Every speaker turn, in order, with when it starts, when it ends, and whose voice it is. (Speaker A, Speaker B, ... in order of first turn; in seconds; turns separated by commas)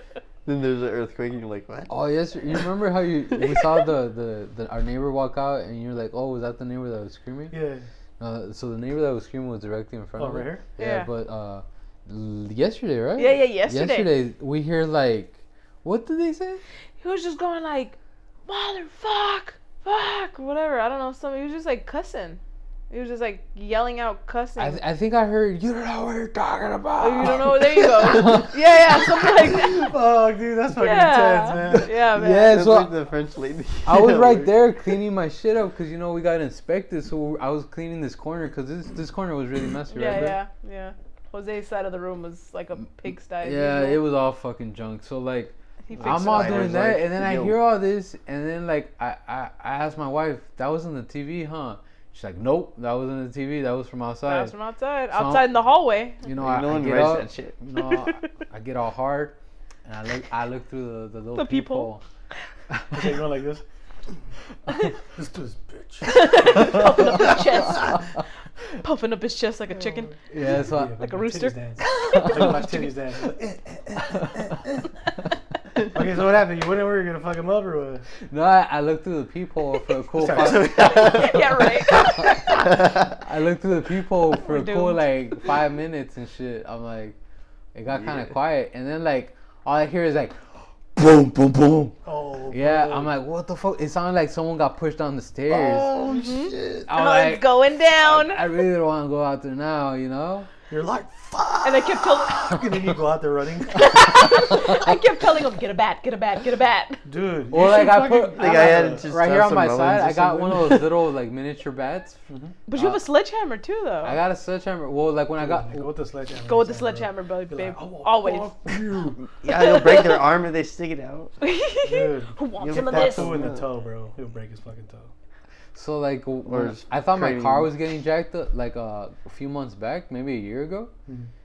Speaker A: 0.5-1.9, Speaker B: 1.9-7.5, Speaker C: 7.5-7.8, Speaker B: 8.2-16.6, Speaker C: 10.2-10.6, Speaker D: 10.8-11.1, Speaker D: 13.2-14.1, Speaker D: 17.0-24.8, Speaker B: 24.6-29.1, Speaker D: 27.0-29.9, Speaker C: 29.5-32.0, Speaker D: 30.8-32.6, Speaker B: 32.0-32.9, Speaker A: 32.4-34.5, Speaker B: 33.9-40.4, Speaker D: 39.9-44.0, Speaker B: 43.4-54.5, Speaker D: 45.9-46.7, Speaker A: 46.0-47.6, Speaker D: 54.2-56.2, Speaker B: 55.1-55.5, Speaker B: 56.2-62.0, Speaker A: 56.3-57.6, Speaker D: 57.8-58.3, Speaker D: 61.4-61.9, Speaker B: 62.7-63.1, Speaker C: 62.9-63.6, Speaker C: 65.0-67.8, Speaker D: 66.0-68.1, Speaker D: 68.7-72.9, Speaker C: 69.9-74.8, Speaker B: 70.3-71.1, Speaker B: 72.0-72.7, Speaker B: 74.1-74.4, Speaker C: 75.9-78.0, Speaker B: 78.3-87.2, Speaker C: 80.2-81.6, Speaker D: 80.5-82.5, Speaker D: 84.3-85.5, Speaker B: 87.8-90.4, Speaker B: 91.0-92.0, Speaker C: 92.0-93.1, Speaker B: 92.5-95.9, Speaker C: 95.5-96.9, Speaker D: 96.1-98.4, Speaker B: 96.9-97.5, Speaker B: 98.0-100.5, Speaker C: 100.7-104.1, Speaker D: 101.6-102.6, Speaker D: 103.8-107.0, Speaker B: 104.4-105.0, Speaker C: 107.0-109.0, Speaker B: 107.5-112.2, Speaker A: 108.3-110.9, Speaker C: 112.3-112.5, Speaker D: 112.7-114.2, Speaker B: 112.8-113.0, Speaker B: 114.0-115.9, Speaker C: 115.4-119.2, Speaker D: 116.4-118.5, Speaker A: 119.2-121.3, Speaker D: 119.6-120.3, Speaker D: 121.4-123.4, Speaker C: 121.8-125.1, Speaker A: 122.6-123.7, Speaker B: 125.8-130.9, Speaker A: 126.5-127.7